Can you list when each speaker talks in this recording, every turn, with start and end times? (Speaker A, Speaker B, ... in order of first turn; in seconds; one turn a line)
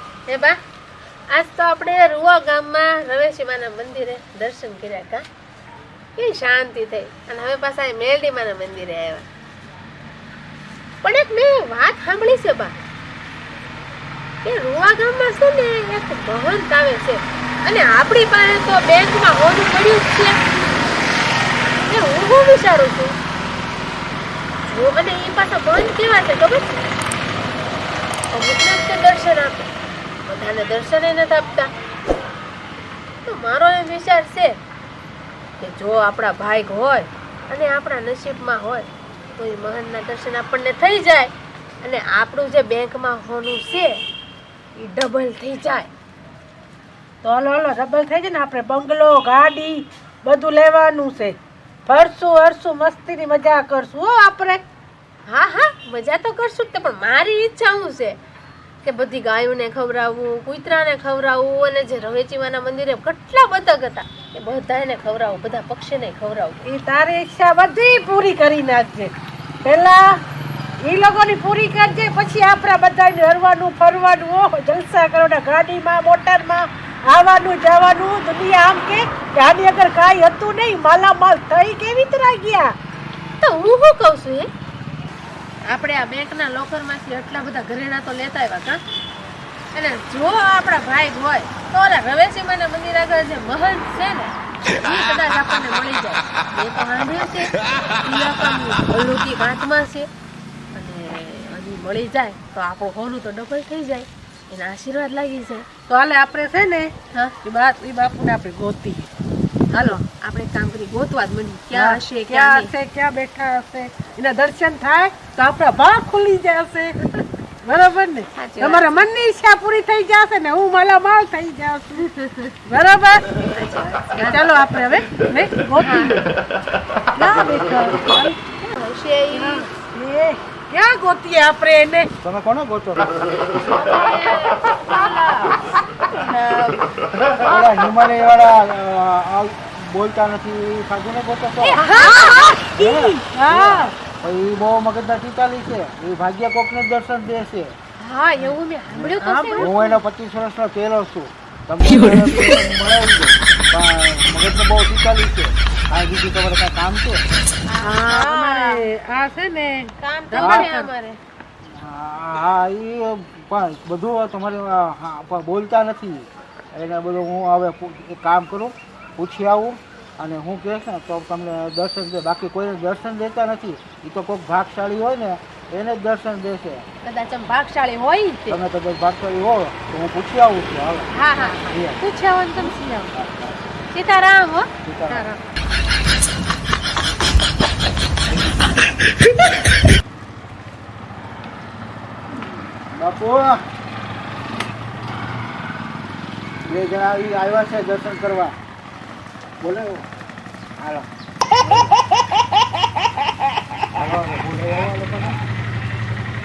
Speaker A: 0.3-0.6
Speaker A: 1.3-5.2
Speaker A: 6.2-9.3
Speaker A: 11.0-12.7
Speaker A: 14.4-20.4
Speaker A: 21.9-23.1
Speaker A: 24.7-26.6
Speaker A: 28.3-29.7
Speaker A: 30.2-31.7
Speaker A: 33.2-34.5
Speaker A: 35.6-44.0
Speaker A: 44.8-45.9
Speaker B: 47.2-51.3
Speaker B: 51.9-54.6
Speaker A: 55.3-58.2
Speaker A: 58.8-66.6
Speaker B: 66.6-70.2
Speaker B: 70.8-82.7
Speaker A: 83.4-84.5
Speaker A: 85.7-88.8
Speaker A: 89.7-100.1
Speaker A: 100.7-105.7
Speaker B: 105.9-109.1
Speaker A: 109.7-112.7
Speaker B: 111.7-122.1
Speaker A: 118.3-118.9
Speaker A: 122.0-122.2
Speaker B: 122.6-123.3
Speaker A: 123.5-124.5
Speaker B: 124.2-126.3
Speaker A: 125.8-126.2
Speaker B: 127.1-128.4
Speaker A: 128.6-129.7
Speaker B: 129.3-132.1
Speaker C: 132.2-133.1
Speaker A: 133.5-136.9
Speaker C: 137.4-141.8
Speaker A: 141.6-142.7
Speaker B: 141.7-143.9
Speaker C: 142.7-147.7
Speaker A: 148.0-149.8
Speaker B: 148.4-149.9
Speaker C: 149.6-157.2
Speaker A: 157.7-158.8
Speaker B: 157.8-160.9
Speaker A: 160.0-161.2
Speaker C: 160.4-160.7
Speaker C: 161.7-176.8
Speaker A: 177.0-178.6
Speaker C: 178.5-182.0
Speaker A: 181.1-181.9
Speaker B: 182.0-183.1
Speaker C: 183.1-183.6
Speaker A: 183.9-184.7
Speaker C: 184.8-185.3
Speaker C: 192.9-193.6
Speaker C: 196.6-198.6
Speaker C: 199.6-200.1
Speaker C: 200.8-201.1
Speaker C: 203.9-205.4